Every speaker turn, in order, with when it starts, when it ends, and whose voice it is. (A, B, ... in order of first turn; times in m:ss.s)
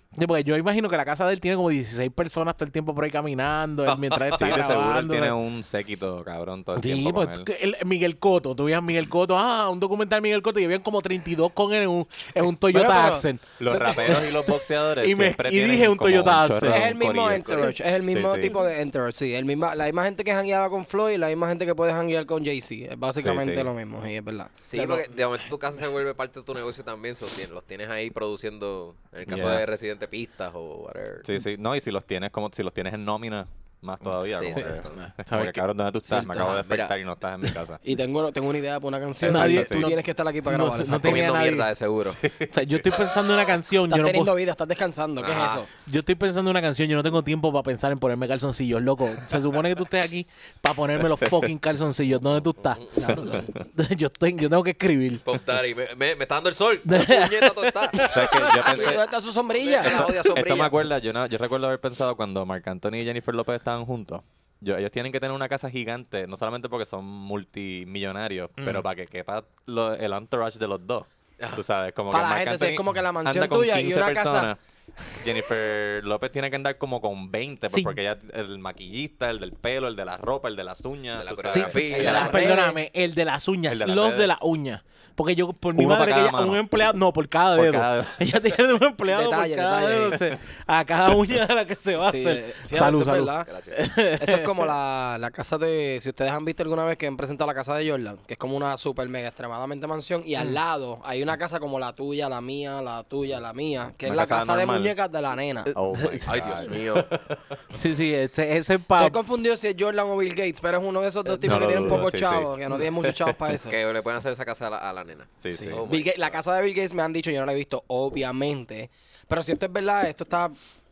0:00.1-0:05.4 A
0:03.9-0:04.6 B
0:04.3-0:07.5 C
0:06.7-0:16.9 A
0:12.7-0:13.2 D
0:13.6-0:18.5 C
0:16.6-0:24.5 D
0:17.4-0:17.8 B
0:23.2-0:23.7 C
0:24.7-0:31.3 B
0:24.7-0:25.2 A
0:29.3-0:29.6 C
0:31.2-0:37.8 C
0:34.3-0:35.0 B
0:34.5-0:35.6 A
0:36.1-0:36.9 B
0:36.1-0:36.4 D
0:37.8-0:41.3 D
0:39.2-0:39.9 C
0:39.2-0:41.7 A
0:40.9-0:42.2 B
0:42.1-0:42.9 C
0:42.5-0:44.3 A
0:43.9-0:45.7 D
0:45.2-0:45.6 B
0:45.8-0:55.2 A
0:52.7-0:53.2 B
0:53.0-0:53.5 D
0:55.2-0:59.0 B
0:56.8-0:58.7 A
0:58.0-0:59.0 C
0:58.6-1:00.1 D
0:59.5-1:00.8 B
0:59.8-1:22.4 C
1:08.6-1:08.8 A
1:12.1-1:14.5 D
1:17.7-1:18.0 A
1:21.1-1:22.6 B
1:21.5-1:34.7 A
1:21.8-1:22.8 D
1:23.7-1:24.3 C
1:25.7-1:26.6 C
1:27.5-1:28.4 C
1:29.1-1:30.2 D
1:32.0-1:33.5 D
1:33.4-1:33.8 B
1:34.2-1:45.7 D
1:44.0-1:44.9 C
1:45.7-1:47.6 C
1:45.8-1:46.5 A
1:46.2-1:47.1 B
1:47.7-1:49.2 A
1:48.9-1:53.8 D
1:51.4-1:52.5 C
1:51.5-1:52.0 A
1:53.0-1:53.3 C
1:53.6-1:56.4 B
1:55.4-1:55.8 C
1:55.5-2:00.6 D